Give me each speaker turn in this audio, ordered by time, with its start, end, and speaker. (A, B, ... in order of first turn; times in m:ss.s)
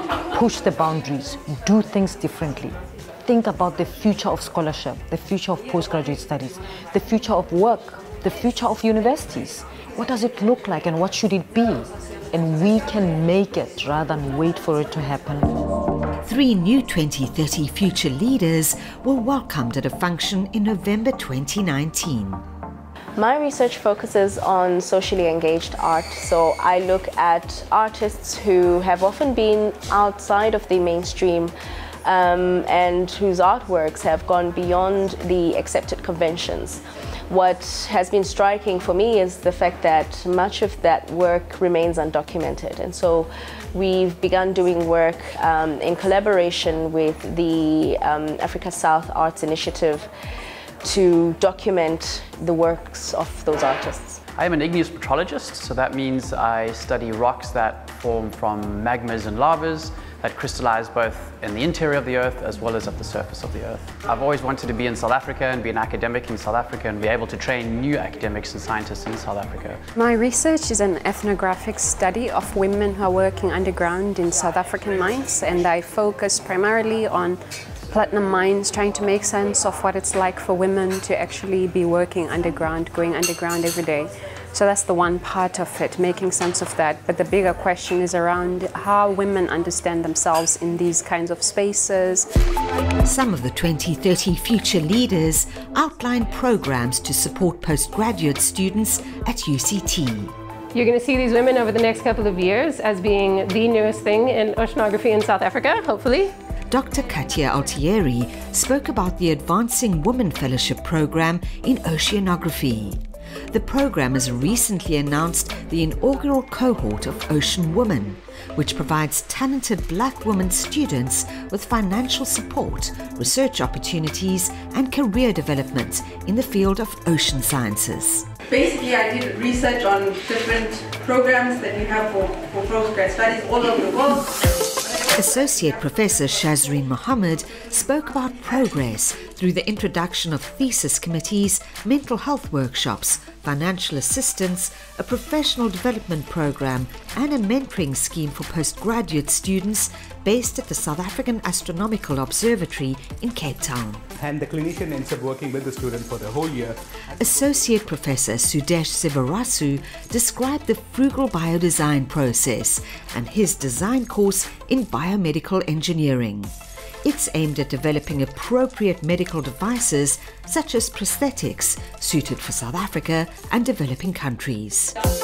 0:00.3-0:15.5 A
0:16.2-0:22.4 B
0:23.2-0:31.5 C
0:32.0-0:50.1 C
0:50.8-0:54.2 C
0:54.4-1:09.8 D
1:10.0-1:17.4 E
1:17.9-1:32.3 E
1:33.0-1:40.3 B
1:40.7-1:46.3 F
1:46.7-1:53.0 B
1:53.5-2:08.2 B
2:08.6-2:14.3 G
2:08.8-2:09.7 C
2:15.1-2:34.0 B
2:34.2-2:36.8 H
2:37.2-2:46.5 B
2:47.0-2:55.0 B